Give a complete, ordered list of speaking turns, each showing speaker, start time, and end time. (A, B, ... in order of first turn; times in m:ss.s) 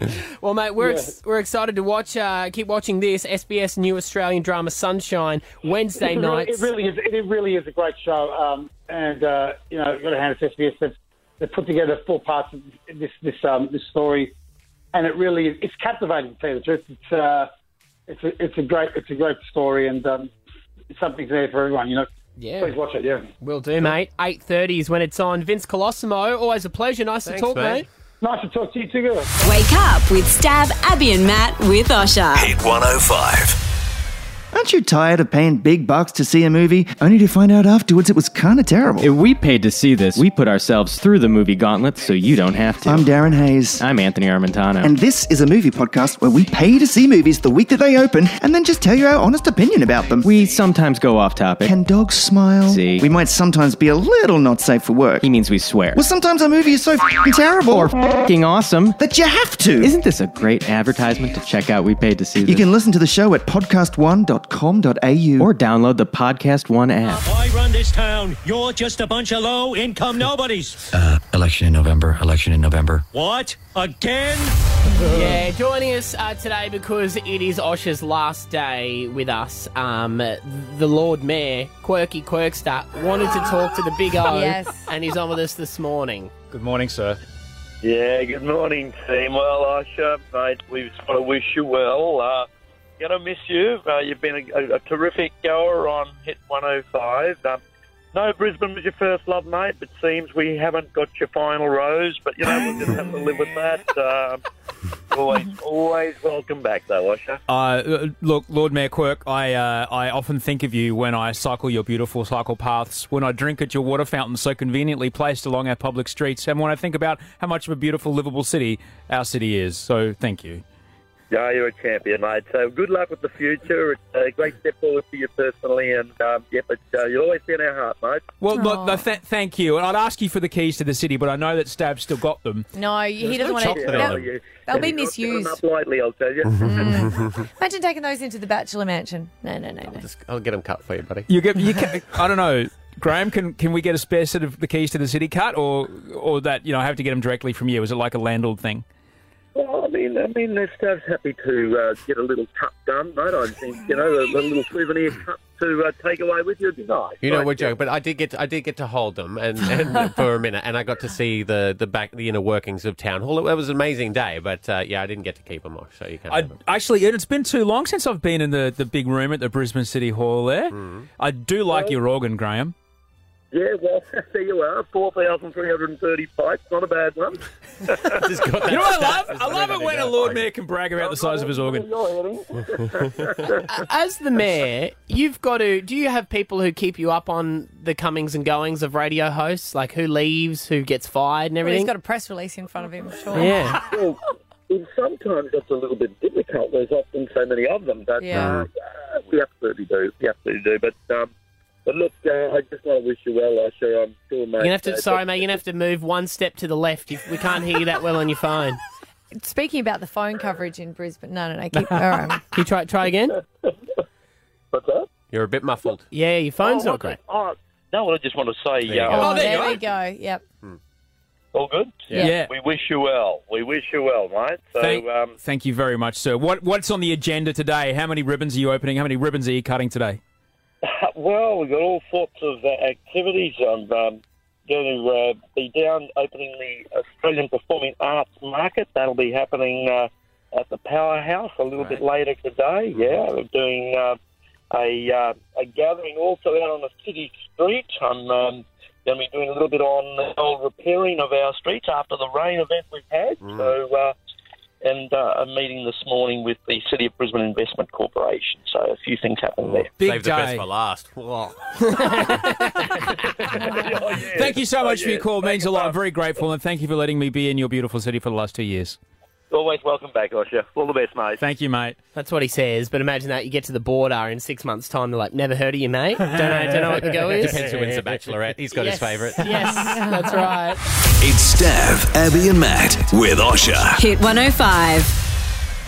0:00.2-0:06.7 A
0:00.8-0:01.1 B
0:06.0-0:14.3 B
0:14.9-0:17.5 B
0:18.1-0:20.3 B
0:20.9-0:22.1 B
0:22.4-0:22.8 A
0:22.6-0:23.3 B
0:23.4-0:27.9 A
0:27.2-0:27.9 C
0:28.2-0:29.5 B
0:29.4-0:32.6 D
0:32.4-0:33.6 E
0:34.5-0:39.1 F
0:39.0-0:43.1 G
0:42.8-0:43.8 F
0:43.8-0:44.9 G
0:44.8-0:50.3 F
0:50.2-0:51.8 G
0:51.6-0:55.3 F
0:52.6-0:53.1 G
0:55.2-0:56.0 G
0:55.9-0:58.0 F
0:57.7-0:59.0 G
0:59.0-1:00.0 F
0:59.8-1:02.7 G
1:02.4-1:05.5 F
1:05.4-1:07.2 G
1:07.2-1:10.8 H
1:10.9-1:13.1 I
1:13.1-1:14.6 H
1:15.1-1:26.3 A
1:24.3-1:24.9 J
1:26.5-1:27.2 K
1:27.8-1:32.5 L
1:33.0-1:37.6 L
1:38.1-1:44.4 L
1:45.1-1:47.4 L
1:47.5-2:00.6 K
2:01.3-2:08.3 L
2:08.4-2:12.7 K
2:08.5-2:09.0 J
2:12.7-2:15.6 J
2:13.2-2:14.9 C
2:13.7-2:17.1 L
2:16.4-2:17.5 C
2:16.6-2:20.0 J
2:19.9-2:21.3 C
2:21.3-2:28.8 K
2:29.6-2:37.8 L
2:37.2-2:46.6 C
2:46.3-2:52.7 K
2:50.7-2:51.1 C
2:51.7-2:52.0 L
2:53.5-2:58.2 L
2:58.1-3:00.5 C
2:58.6-3:01.9 K
3:01.0-3:03.7 L
3:02.8-3:03.3 C
3:03.7-3:11.9 A
3:11.6-3:13.6 J
3:13.3-3:13.9 A
3:13.7-3:21.3 L
3:18.2-3:18.6 J
3:18.3-3:18.7 C
3:21.9-3:25.6 L
3:24.6-3:28.8 A
3:29.4-3:32.4 J
3:32.5-3:33.4 A
3:34.7-3:35.1 L
3:35.3-3:36.1 C
3:36.1-3:37.2 A
3:36.6-3:39.4 L
3:38.8-3:39.7 C
3:39.1-3:40.4 J
3:39.2-3:39.8 K
3:41.5-3:45.3 L
3:42.2-3:42.5 K
3:44.8-3:50.2 K
3:50.8-4:04.2 L
4:01.8-4:02.0 C
4:02.9-4:03.2 C
4:04.7-4:14.1 L
4:13.4-4:13.8 C
4:14.8-4:19.9 L
4:19.6-4:22.3 C
4:20.0-4:20.7 K
4:21.8-4:22.9 A
4:23.1-4:23.8 C
4:23.7-4:26.0 L
4:24.3-4:29.0 K
4:29.5-4:31.4 L
4:31.4-4:32.0 K
4:32.2-4:37.6 A
4:36.9-4:39.7 C
4:38.7-4:40.8 A
4:39.7-4:40.4 J
4:41.2-4:44.0 E
4:44.0-4:45.2 D